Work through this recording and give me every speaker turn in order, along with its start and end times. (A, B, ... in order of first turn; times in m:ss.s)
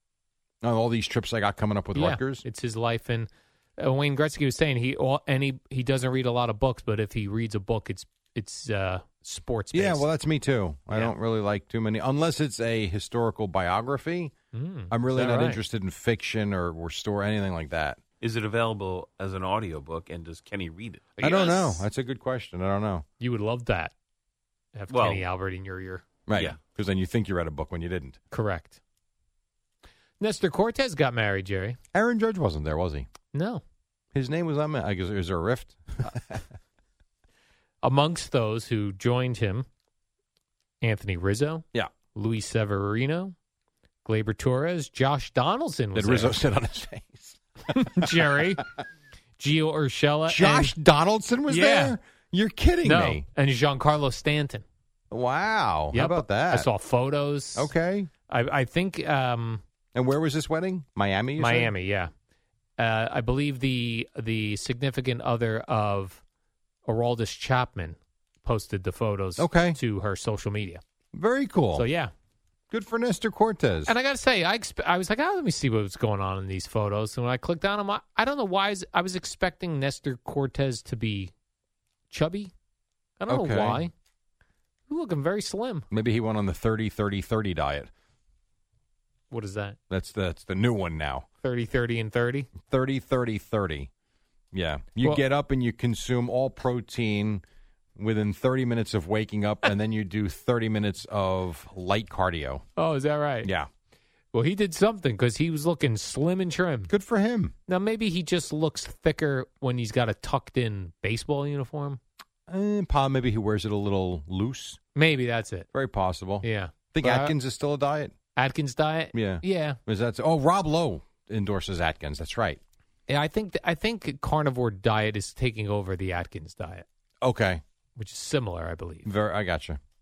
0:00.6-0:02.4 A
0:01.9-0:10.0 B
0:09.7-0:14.3 A
0:14.5-0:15.6 B
0:14.9-0:18.0 A
0:18.2-0:21.2 C
0:21.2-0:21.8 B
0:21.2-0:23.0 A
0:23.2-0:23.9 B
0:24.7-0:26.0 B
0:24.9-0:25.2 C
0:26.3-0:28.2 A
0:26.3-0:26.6 C
0:28.3-0:28.8 B
0:30.2-0:31.8 B
0:31.9-0:33.1 A
0:33.3-0:33.6 B
0:34.1-0:36.4 A
0:37.8-0:39.7 B
0:40.8-0:43.3 B
0:44.0-0:46.4 B
0:45.9-0:48.4 A
0:47.7-0:48.6 B
0:49.4-0:50.7 B
0:50.3-0:53.2 A
0:51.5-0:52.0 B
0:52.8-0:54.6 B
0:55.1-0:56.7 A
0:55.9-0:57.7 B
0:57.6-0:58.1 A
0:58.3-0:59.6 B
0:59.9-1:01.7 A
1:01.4-1:02.1 B
1:02.8-1:06.2 B
1:06.8-1:10.8 B
1:09.4-1:09.8 A
1:11.1-1:11.8 A
1:11.7-1:12.1 B
1:12.7-1:13.9 A
1:13.9-1:21.3 B
1:22.1-1:22.5 B
1:23.2-1:23.9 B
1:23.3-1:23.9 A
1:24.9-1:25.9 B
1:25.9-1:27.9 A
1:29.3-1:29.8 B
1:29.9-1:31.2 A
1:31.4-1:32.5 B
1:32.6-1:33.9 A
1:34.5-1:37.4 A
1:38.0-1:42.6 A
1:42.8-1:43.5 B
1:44.3-1:46.9 B
1:46.9-1:47.5 A
1:47.7-1:52.0 B
1:52.5-1:54.8 A
1:54.9-1:55.7 B
1:55.7-1:58.1 A
1:56.4-1:57.3 B
1:58.4-1:59.8 B
1:59.1-2:02.6 A
2:03.1-2:06.8 B
2:07.2-2:07.6 A
2:08.0-2:09.1 B
2:09.0-2:09.8 A